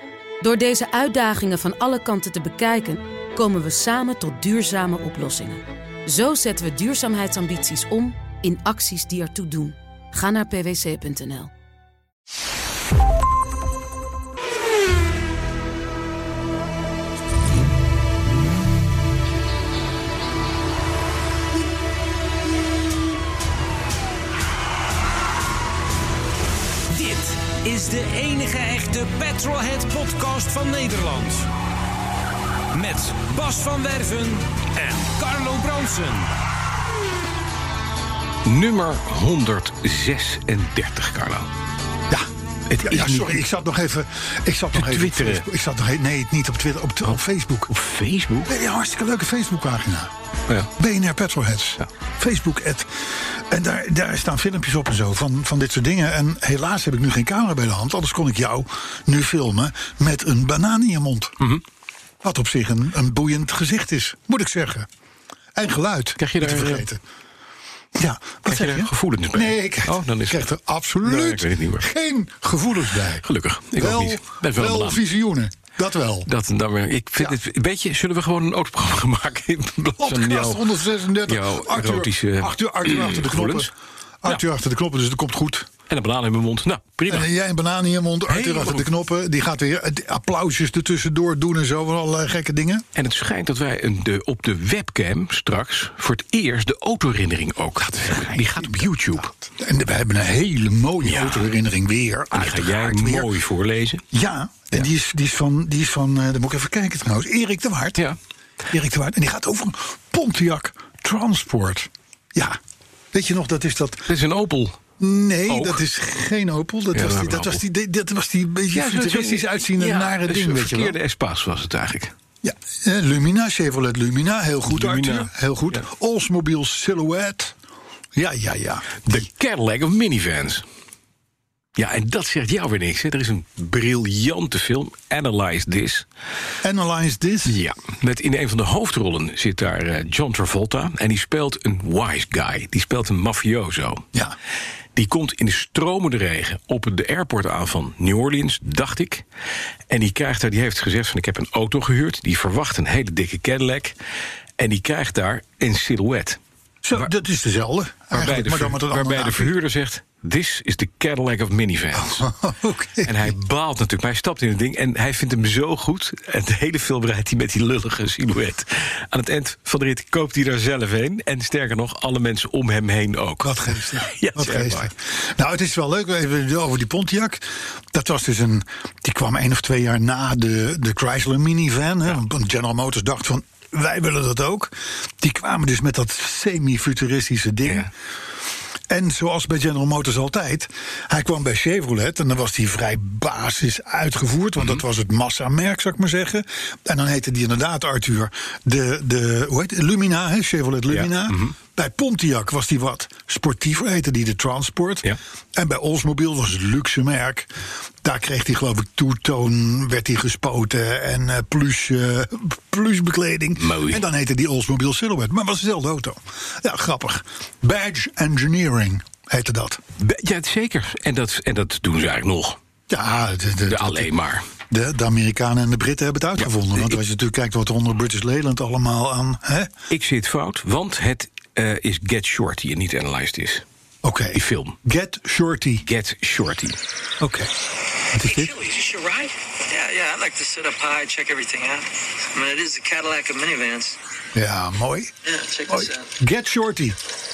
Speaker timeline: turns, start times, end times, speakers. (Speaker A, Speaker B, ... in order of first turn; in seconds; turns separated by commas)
Speaker A: 0.4-11.5, Speaker B: 26.9-31.5, Speaker B: 32.7-36.3, Speaker C: 38.4-41.5, Speaker C: 42.7-43.4, Speaker D: 42.8-47.7, Speaker C: 44.7-45.5, Speaker C: 47.7-48.5, Speaker D: 48.4-50.1, Speaker D: 50.8-61.4, Speaker D: 62.2-64.9, Speaker D: 65.5-67.0, Speaker C: 66.2-66.9, Speaker D: 68.0-73.2, Speaker C: 68.5-70.5, Speaker C: 71.0-71.9, Speaker C: 73.2-75.0, Speaker D: 73.8-76.3, Speaker C: 76.3-83.7, Speaker D: 80.0-83.7, Speaker D: 84.2-85.7, Speaker C: 85.9-87.3, Speaker D: 87.1-92.8, Speaker C: 88.3-88.9, Speaker C: 92.9-99.3, Speaker D: 98.0-103.3, Speaker C: 101.0-101.5, Speaker C: 102.3-104.0, Speaker D: 104.1-108.0, Speaker D: 108.7-112.6, Speaker D: 113.1-114.1, Speaker C: 114.1-114.8, Speaker D: 115.0-121.0, Speaker C: 115.5-115.8, Speaker C: 116.9-117.6, Speaker C: 118.7-122.1, Speaker D: 122.4-127.5, Speaker C: 124.7-125.8, Speaker D: 128.1-129.1, Speaker C: 129.0-130.6, Speaker C: 131.8-136.1, Speaker D: 136.6-137.6, Speaker C: 137.5-144.1, Speaker C: 144.9-149.2, Speaker C: 149.9-153.9, Speaker C: 154.6-156.4, Speaker D: 156.8-159.5, Speaker C: 158.1-162.3, Speaker D: 162.0-163.3, Speaker C: 163.0-174.9, Speaker D: 173.4-187.9, Speaker D: 188.9-207.5, Speaker C: 200.9-201.6, Speaker D: 208.0-219.8, Speaker C: 213.6-214.0, Speaker C: 220.0-222.6, Speaker D: 222.9-224.1, Speaker C: 223.7-224.4, Speaker D: 224.7-229.7, Speaker C: 229.9-233.6, Speaker D: 234.0-235.8, Speaker C: 234.3-234.8, Speaker C: 235.8-236.8, Speaker D: 237.2-237.5, Speaker D: 238.1-238.6, Speaker E: 238.1-244.0, Speaker D: 244.3-245.1, Speaker E: 245.2-246.0, Speaker D: 245.7-247.0